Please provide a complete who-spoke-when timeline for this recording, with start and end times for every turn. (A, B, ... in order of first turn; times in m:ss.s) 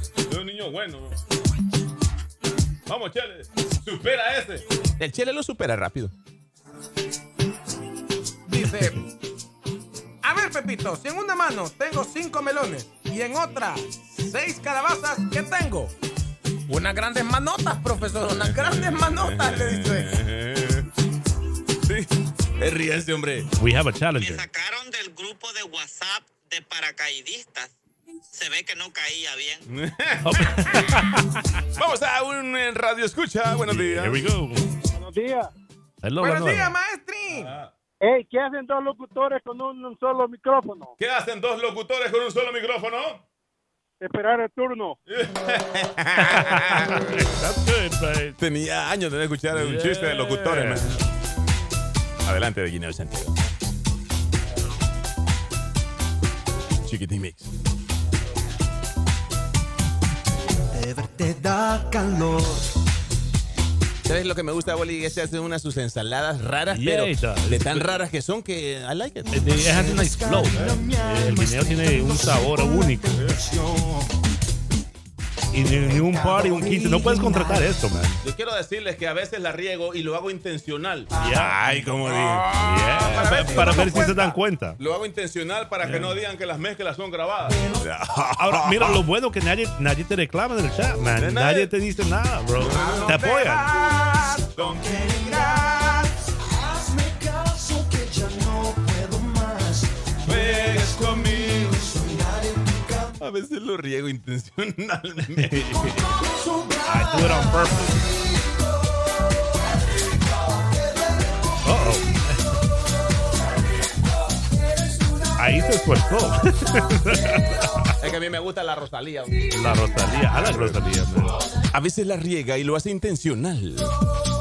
0:00.3-0:01.2 A
0:02.9-0:06.1 A
0:08.5-0:09.0 B
0:10.2-0:15.9 B
0:16.7-0:20.1 B
0:18.0-0:20.9 A
0:21.8-0:23.5 A
0:23.6-0:24.5 C
0:24.2-0:27.7 D
0:28.3-0:29.6 D
0:29.7-0:30.9 A
0:30.2-0:31.6 C
0:31.8-0:34.2 A
0:33.6-0:34.7 C
0:34.9-0:35.5 E
0:36.0-0:36.8 C
0:36.2-0:37.5 B
0:37.3-0:37.7 A
0:38.0-0:41.0 E
0:41.0-0:43.2 A
0:44.0-0:45.0 E
0:45.1-0:47.2 A
0:46.3-0:48.4 C
0:48.4-0:51.0 A
0:49.5-0:50.9 C
0:52.2-0:53.4 A
0:56.8-0:57.5 A
1:00.7-1:02.8 F
1:04.1-1:09.3 A
1:06.7-1:08.0 C
1:09.3-1:13.2 C
1:09.5-1:14.1 F
1:15.5-1:18.2 C
1:16.1-1:17.6 F
1:18.2-1:29.0 A
1:21.2-1:21.9 C
1:22.0-1:24.4 B
1:22.5-1:24.8 C
1:25.8-1:26.2 C
1:27.5-1:27.8 F
1:28.3-1:33.8 C
1:31.2-1:31.7 A
1:32.6-1:33.2 A
1:32.6-1:34.6 B
1:34.6-1:36.1 A
1:34.7-1:36.0 F
1:36.7-1:43.1 F
1:40.2-1:41.8 A
1:43.2-1:45.8 A
1:45.4-1:46.1 C
1:46.7-1:47.3 F
1:46.8-1:48.1 C
1:51.6-1:52.6 C
1:55.4-1:58.1 C
1:58.0-1:59.5 A
1:59.5-2:01.4 C
2:00.4-2:00.8 A
2:01.7-2:03.9 A